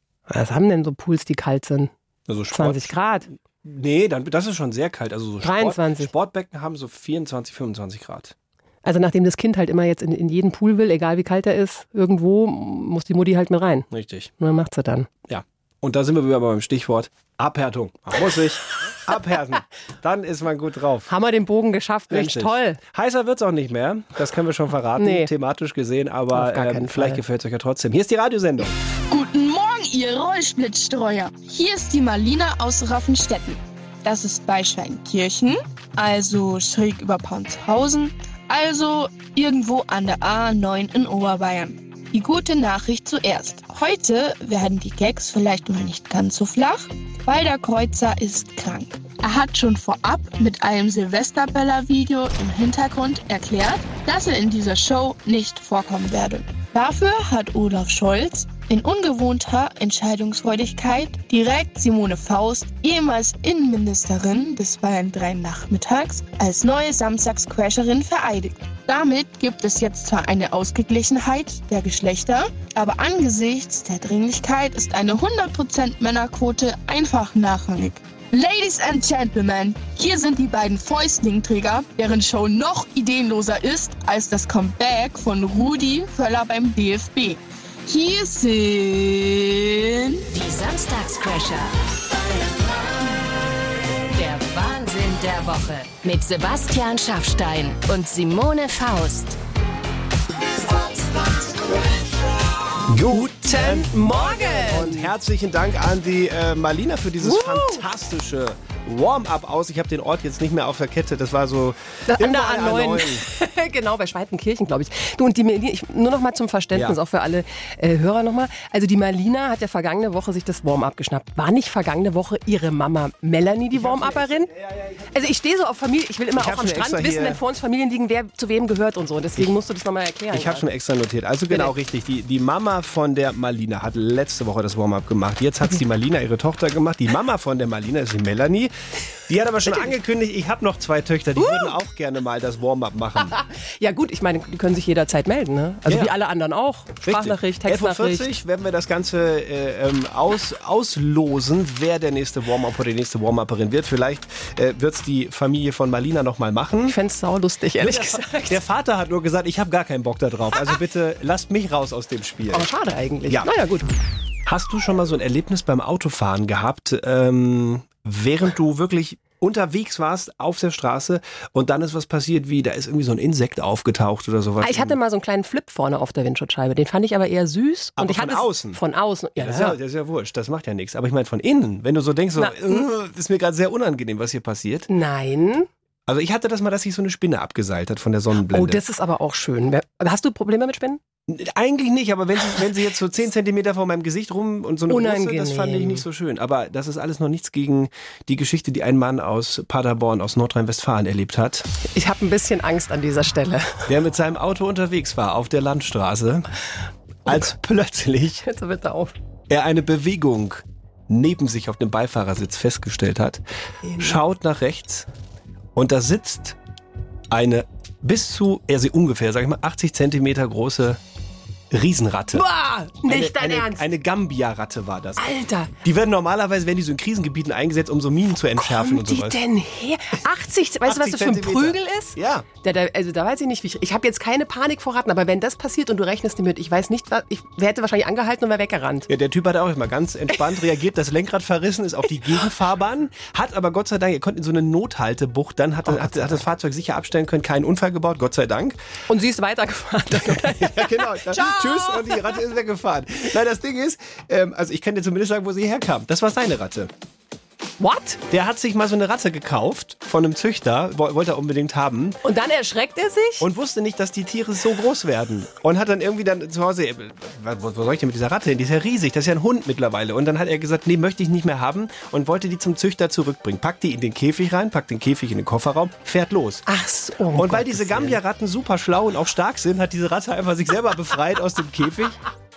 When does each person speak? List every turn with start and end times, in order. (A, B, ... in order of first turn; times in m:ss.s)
0:00.3-0:01.9 A
0:02.3-0:02.9 B
0:02.5-0:03.3 A
0:03.6-0:08.3 B
0:05.4-0:06.1 A
0:08.8-0:13.9 A
0:13.9-0:14.3 B
0:14.4-0:15.1 A
0:15.3-0:21.1 B
0:21.1-0:22.8 A
0:22.1-0:28.7 B
0:25.0-0:25.3 A
0:26.3-0:27.2 A
0:29.1-1:30.2 C
1:30.3-1:32.8 D
1:34.1-1:39.4 D
1:42.9-1:53.2 B
1:43.0-1:45.1 A
1:47.2-1:47.8 A
1:52.1-2:04.5 A
2:03.7-2:05.2 B
2:05.1-2:10.6 A
2:06.3-2:07.4 B
2:10.3-2:18.7 B
2:19.3-2:23.3 B
2:19.6-2:19.9 A
2:21.4-2:21.8 A
2:23.2-2:28.3 A
2:25.9-2:26.1 B
2:27.0-2:37.0 B
2:36.8-2:38.6 A
2:37.8-2:42.7 B
2:42.5-2:43.9 A
2:44.4-2:55.0 B
2:54.6-2:59.8 A
2:58.0-2:58.8 B
2:59.4-3:04.9 B
3:02.4-3:02.8 A
3:04.9-3:05.7 A
3:06.1-3:08.8 B
3:08.4-3:11.0 A
3:11.3-3:21.7 B
3:14.9-3:16.0 A
3:21.9-3:23.8 A
3:23.9-3:26.5 B
3:27.2-3:28.4 B
3:28.4-3:29.1 A
3:29.5-3:33.4 B
3:33.8-3:34.2 A
3:34.0-3:35.1 B
3:35.7-3:36.6 B
3:37.3-3:41.0 B
3:41.7-3:42.5 B
3:42.3-3:43.9 A
3:43.0-3:45.3 B
3:45.2-3:45.7 A
3:45.8-3:49.4 B
3:48.6-3:59.1 A
3:50.8-3:52.4 B
3:59.1-4:08.8 B
4:05.9-4:06.4 A
4:09.1-4:12.2 A
4:10.3-4:16.9 B
4:17.8-4:18.2 A
4:18.3-4:22.2 B
4:22.2-4:23.4 A
4:23.4-4:36.6 B
4:36.7-4:38.2 A
4:37.3-4:42.2 B